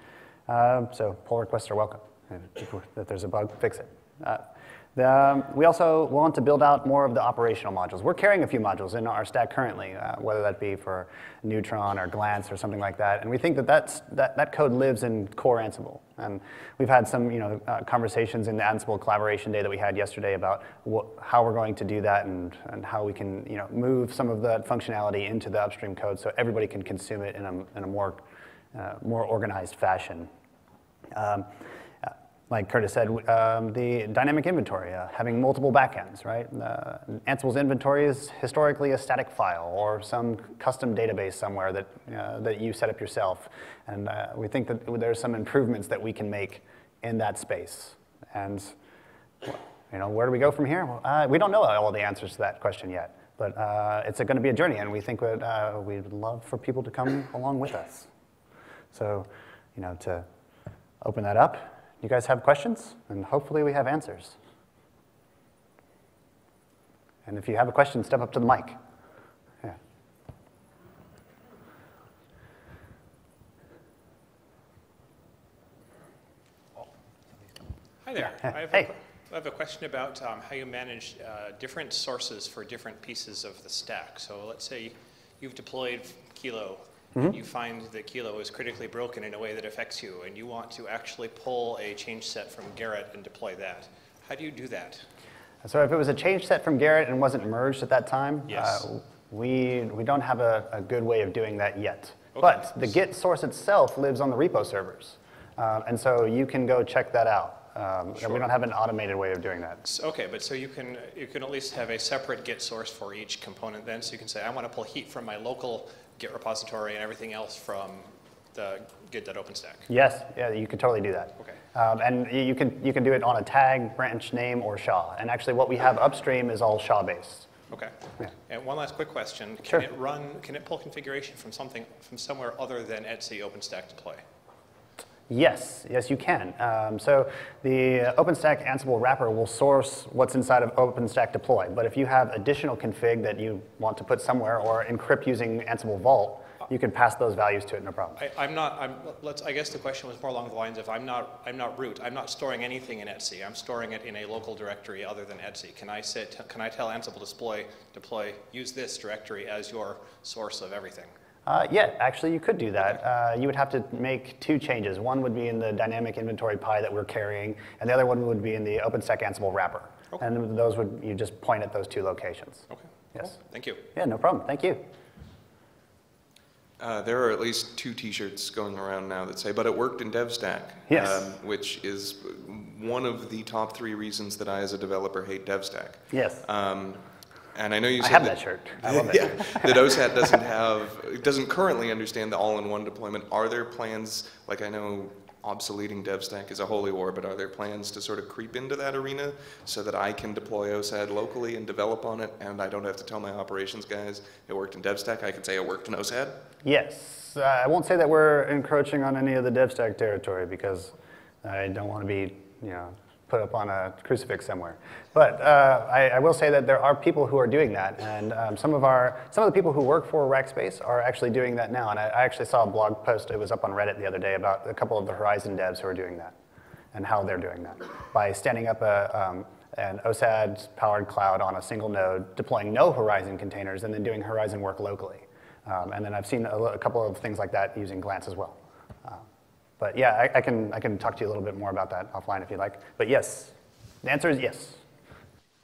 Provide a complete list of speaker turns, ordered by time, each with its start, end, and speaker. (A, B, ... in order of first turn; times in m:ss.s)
0:00.5-0:28.2 A
0:28.7-0:30.3 A
0:31.1-0:31.5 A
0:32.0-0:48.7 A
0:49.4-0:58.1 A
0:58.9-1:00.3 A
1:01.0-1:04.4 A
1:07.3-1:08.8 A
1:18.0-1:35.1 B
1:35.6-1:49.8 A
1:38.5-1:38.8 B
1:42.4-1:42.7 B
1:49.8-1:59.9 B
1:59.9-2:07.5 A
2:07.7-2:08.0 B
2:08.5-2:14.2 B
2:15.3-2:28.2 A
2:28.2-2:41.1 B
2:41.5-2:53.4 A
2:52.7-2:53.8 B
2:53.9-2:54.9 A
2:56.8-3:07.0 C
3:00.9-3:01.3 A
3:06.1-3:06.4 A
3:07.5-3:26.4 C
3:08.0-3:09.7 A
3:26.6-3:46.4 A
3:46.9-3:59.2 A
3:59.8-4:04.8 A